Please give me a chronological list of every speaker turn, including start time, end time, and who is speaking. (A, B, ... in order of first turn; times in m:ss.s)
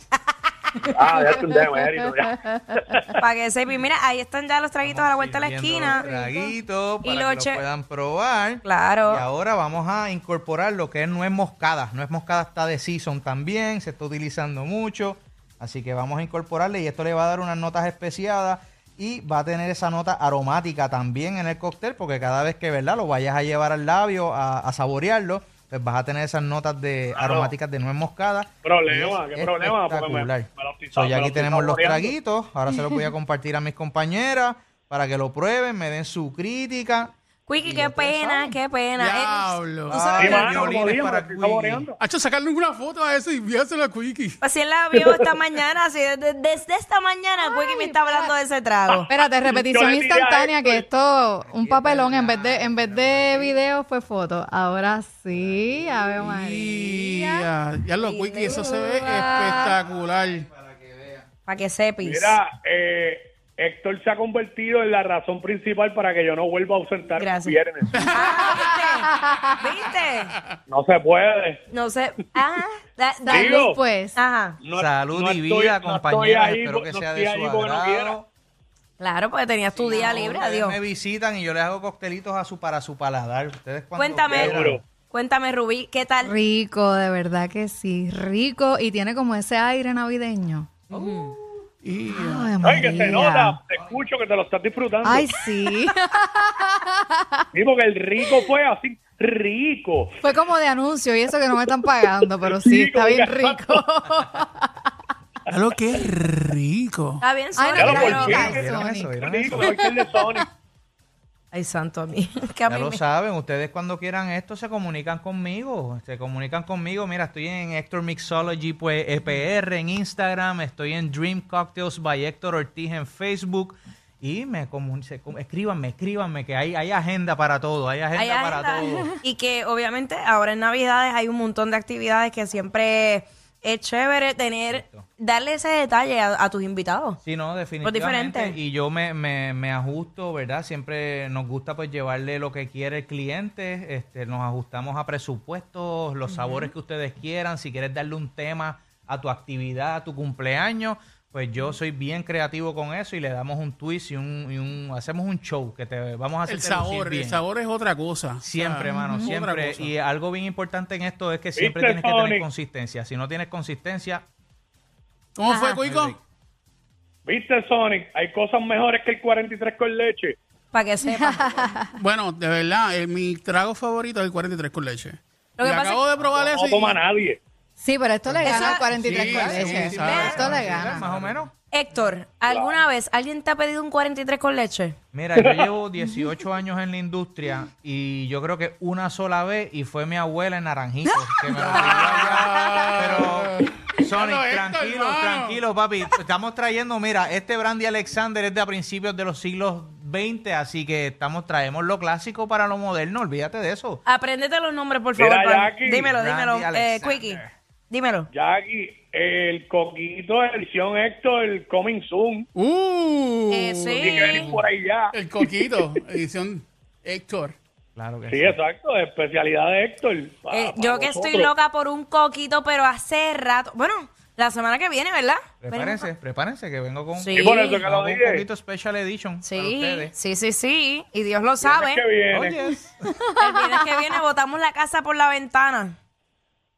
0:00.8-0:03.1 A
0:00.9-0:03.2 B
0:03.2-0:06.1 C
0:04.8-0:38.6 D
0:05.8-0:06.5 A
0:07.0-0:07.6 C
0:08.6-0:09.2 C
0:27.1-0:27.5 B
0:28.6-0:32.1 B
0:37.5-0:40.7 C
0:39.0-0:40.2 E
0:39.9-0:41.9 D
0:40.2-0:42.0 B
0:42.0-0:44.4 E
0:44.4-0:49.1 C
0:44.9-0:45.2 B
0:47.5-0:48.3 A
0:48.9-0:50.8 B
0:49.1-0:57.5 A
0:51.4-0:53.6 D
0:55.3-0:56.0 D
0:56.2-1:00.5 E
0:58.0-0:59.7 C
0:59.3-1:01.3 D
1:01.5-1:02.4 C
1:02.0-1:08.0 B
1:07.2-1:07.6 C
1:07.9-1:08.8 E
1:08.1-1:10.4 C
1:09.1-1:09.6 A
1:10.7-1:11.6 B
1:11.7-1:14.6 C
1:13.3-1:14.2 A
1:13.3-1:13.8 B
1:14.6-1:18.2 B
1:14.8-1:18.3 D
1:19.0-1:20.8 C
1:19.9-1:24.8 D
1:24.0-1:26.3 C
1:24.3-1:24.8 B
1:26.2-1:31.1 A
1:30.9-1:31.4 C
1:31.8-1:32.6 E
1:32.1-1:33.6 A
1:32.6-1:35.3 B
1:35.0-1:37.4 A
1:37.5-1:40.3 B
1:40.2-1:44.7 A
1:42.4-1:43.8 B
1:45.5-1:46.0 B
1:45.5-1:47.2 E
1:47.2-1:48.4 C
1:47.6-1:50.4 A
1:47.8-1:50.5 B
1:48.0-1:49.8 D
1:51.5-1:53.0 C
1:52.7-2:09.2 D
2:08.2-2:17.2 C
2:14.7-2:15.0 D
2:17.2-2:37.4 D
2:17.8-2:18.6 C
2:26.3-2:26.7 C
2:36.5-2:39.9 E
2:38.4-2:44.2 D
2:38.8-2:39.3 A
2:41.6-2:42.5 B
2:45.4-2:46.2 E
2:45.5-2:45.8 C
2:45.8-2:46.2 D
2:47.3-2:50.4 B
2:50.7-2:51.7 C
2:51.1-2:52.0 A
2:52.0-2:57.0 E
2:55.6-2:56.0 C
2:56.3-2:57.4 B
2:57.8-3:01.0 A
2:58.3-3:01.5 D
2:58.4-2:59.2 C
2:59.0-3:01.4 E
3:00.0-3:00.5 C
3:01.7-3:05.0 C
3:02.5-3:02.8 B
3:05.1-3:24.0 D
3:05.4-3:05.7 B
3:11.5-3:15.6 E
3:24.1-3:28.3 C
3:25.2-3:26.1 B
3:26.0-3:27.5 D
3:28.3-3:32.5 B
3:32.6-3:37.6 E
3:33.5-3:34.5 C
3:34.0-3:36.0 B
3:38.0-3:38.6 D
3:38.3-3:41.5 B
3:40.5-3:46.0 C
3:45.6-3:50.1 D
3:47.2-3:47.8 C
3:47.3-3:48.4 B
3:49.4-3:52.0 C
3:51.6-3:52.6 B
3:52.3-3:53.2 D
3:53.2-3:54.0 A
3:53.4-3:56.0 C